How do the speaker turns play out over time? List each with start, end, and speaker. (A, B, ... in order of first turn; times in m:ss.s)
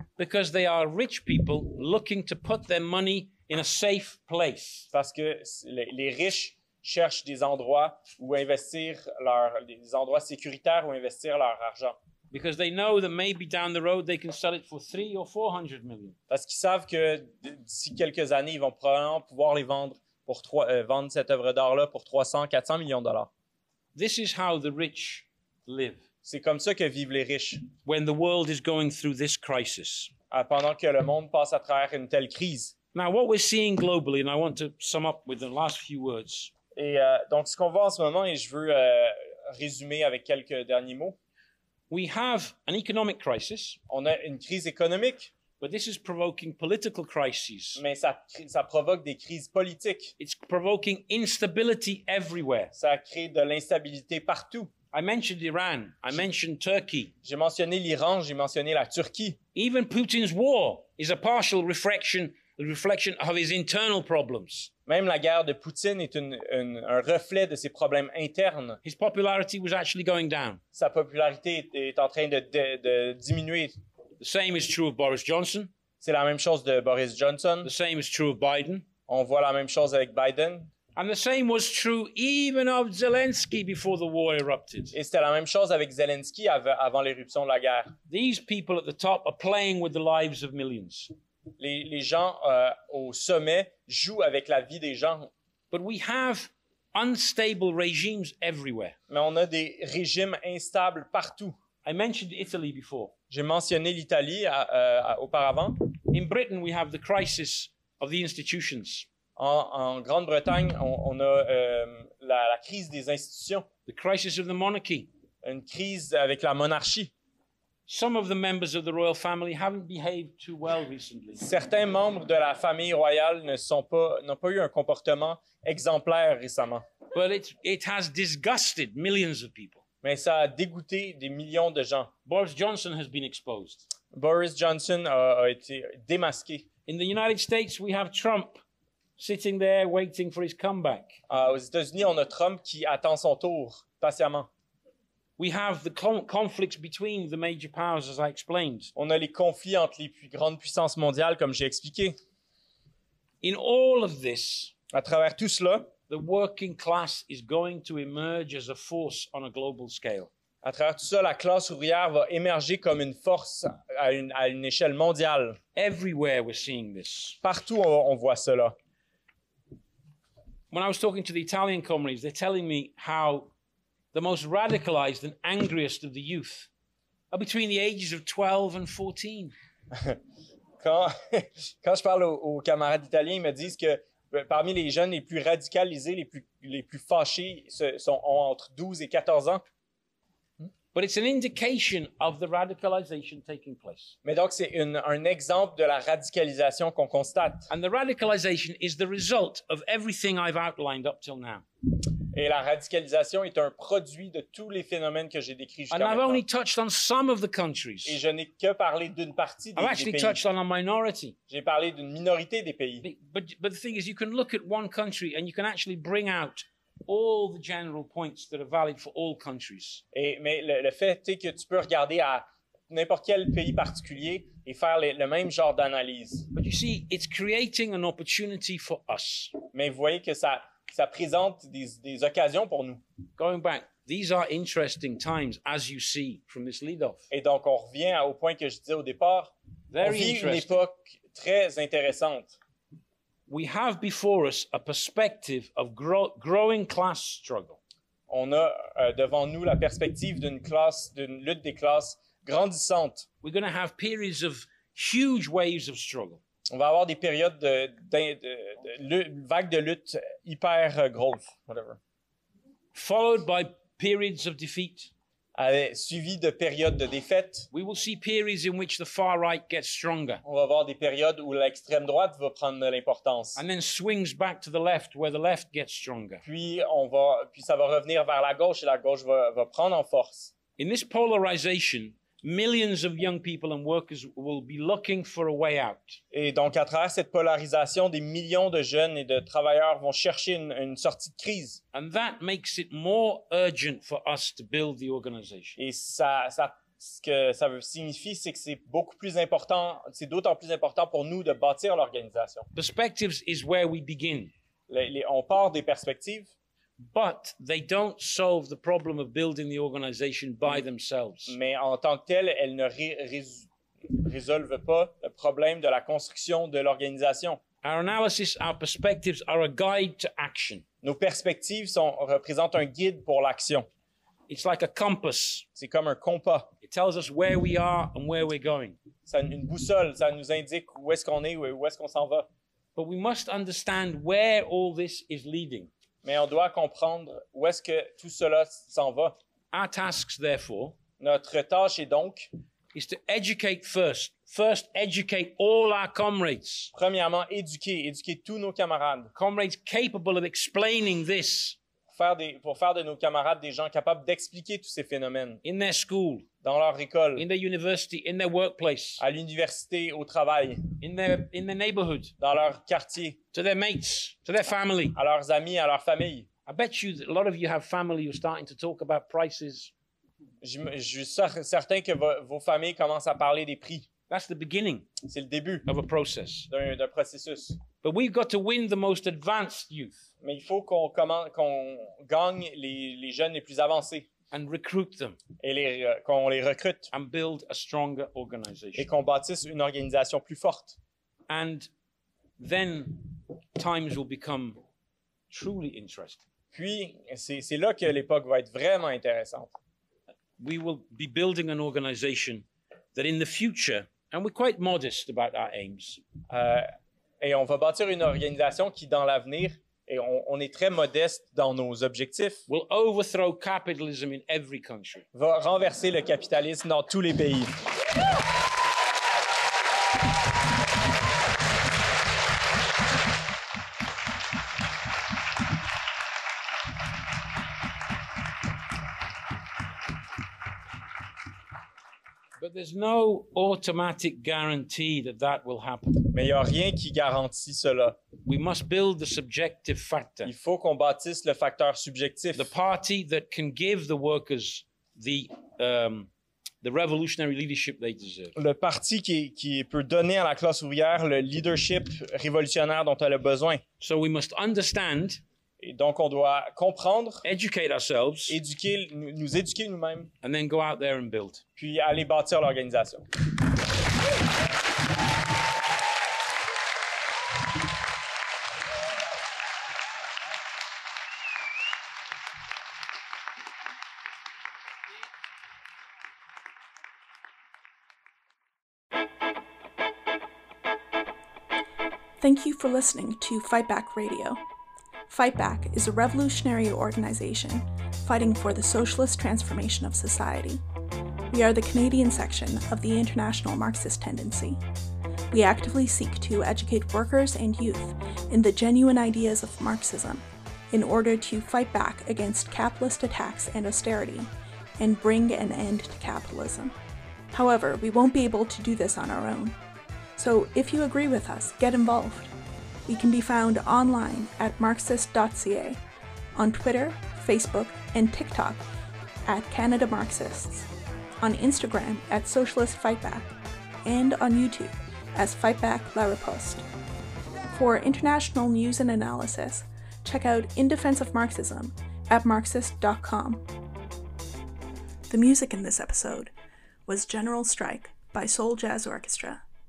0:00.2-0:04.9 A
0:04.9-0:12.0 B
0:12.3-0:16.2 A
0:16.3-0:23.3 B
0:23.9-0:26.0 A
0:26.2-0:27.7 B
0:27.8-0:30.1 A
0:30.3-0:32.7 B
0:32.9-0:36.5 A
0:36.7-0:41.2 B
0:41.9-0:43.8 A
0:43.9-0:45.3 B
0:45.6-0:47.8 A
0:47.8-0:50.1 B
0:50.2-0:52.7 A
0:52.7-0:54.7 B
0:54.9-0:57.1 A
0:57.2-0:59.4 B
0:59.5-1:04.7 A
1:04.8-1:08.8 B
1:08.8-1:10.6 A
1:10.7-1:13.8 B
1:14.2-1:15.7 A
1:16.0-1:17.7 B
1:17.6-1:18.8 A
1:19.1-1:20.7 B
1:21.0-1:25.0 A
1:24.9-1:28.0 B
1:28.1-1:31.1 A
1:31.6-1:35.3 B
1:35.7-1:39.0 A
1:39.1-1:41.5 B
1:41.8-1:43.1 A
1:43.3-1:45.8 B
1:46.1-1:49.0 A
1:49.4-1:53.7 B
1:53.8-1:55.1 A
1:55.4-1:57.1 B
1:57.9-2:01.4 A
2:01.4-2:06.8 B
2:07.1-2:09.8 A
2:10.0-2:12.1 B
2:12.2-2:13.9 A
2:14.1-2:16.7 B
2:16.8-2:18.6 A
2:19.2-2:21.2 A
2:21.3-2:24.5 B
2:25.4-2:28.9 A
2:28.9-2:32.2 B
2:33.4-2:34.7 A
2:34.9-2:35.9 B
2:36.1-2:40.3 A
2:40.6-2:45.6 B
2:45.8-2:47.4 A
2:47.4-2:48.7 B
2:50.7-2:53.5 A
2:54.1-2:56.7 A
2:57.3-2:59.5 A
2:59.9-3:00.2 B
3:00.8-3:09.6 B
3:10.9-3:14.2 A
3:14.2-3:17.7 B
3:17.7-3:21.6 A
3:22.3-3:26.4 B
3:25.9-3:28.2 A
3:28.0-3:30.4 B
3:29.8-3:31.4 A
3:31.5-3:33.0 B
3:33.0-3:40.0 A
3:40.1-3:46.5 B
3:46.5-3:49.6 A
3:49.7-3:53.0 B
3:53.4-3:57.3 A
3:57.3-4:02.6 B
3:59.9-4:00.8 A
4:03.5-4:07.8 A
4:08.3-4:13.2 B
4:13.4-4:16.4 A
4:16.7-4:22.0 B
4:22.9-4:25.1 A
4:25.5-4:27.7 B
4:27.7-4:30.4 A
4:30.4-4:33.6 B
4:33.5-4:36.4 A
4:36.4-4:40.5 B
4:40.8-4:46.2 A
4:46.3-4:51.8 B
4:51.9-4:55.8 A
4:55.8-5:02.7 B
5:02.7-5:04.5 A
5:04.9-5:06.5 B
5:07.0-5:11.6 A
5:11.5-5:17.6 B
5:17.8-5:20.8 A
5:21.0-5:23.9 B
5:24.5-5:25.6 A
5:25.8-5:26.7 B
5:26.8-5:29.0 A
5:29.2-5:32.5 B
5:33.0-5:35.9 A
5:36.2-5:39.3 B
5:39.7-5:41.0 A
5:41.2-5:42.5 B
5:42.9-5:46.9 A
5:46.9-5:49.3 B
5:49.3-5:51.8 A
5:52.1-5:55.6 B
5:55.6-5:56.4 A
5:56.6-5:57.4 B
5:57.4-5:59.2 A
5:59.2-6:00.9 B
6:01.0-6:02.3 A
6:02.4-6:03.4 B
6:03.5-6:05.2 A
6:05.1-6:06.5 B
6:06.7-6:09.9 A
6:10.6-6:14.1 B
6:14.3-6:15.1 A
6:15.2-6:15.8 B
6:15.8-6:16.7 A
6:16.7-6:17.8 B
6:18.0-6:20.3 A
6:20.4-6:24.3 B
6:24.5-6:25.4 A
6:25.6-6:27.1 B
6:27.1-6:29.1 A
6:29.0-6:31.0 B
6:31.5-6:31.9 A
6:32.6-6:34.8 A
6:35.5-6:36.4 A
6:36.7-6:39.7 B
6:40.6-6:46.2 A
6:46.5-6:46.9 B
6:47.4-6:52.6 B
6:52.7-6:55.2 A
6:55.3-6:57.8 B
7:12.6-7:16.2 A
7:16.2-7:18.2 B
7:18.4-7:20.5 A
7:20.4-7:22.7 B
7:22.5-7:26.3 A
7:26.8-7:28.6 A
7:28.6-7:33.8 B
7:34.0-7:35.4 A
7:35.8-7:37.4 B
7:37.4-7:38.6 A
7:38.5-7:40.3 B
7:40.4-7:41.6 A
7:41.8-7:43.3 B
8:02.4-8:04.6 C
8:05.3-8:10.8 C
8:11.5-8:14.8 C
8:15.5-8:26.9 C
8:27.5-8:29.7 C
8:30.4-8:32.5 C
8:33.1-8:36.0 C
8:36.5-8:38.8 C
8:39.4-8:40.9 C
8:41.4-8:43.5 C
8:44.0-8:46.8 C
8:47.7-8:53.6 C
8:55.3-8:56.5 C
8:57.1-8:59.6 C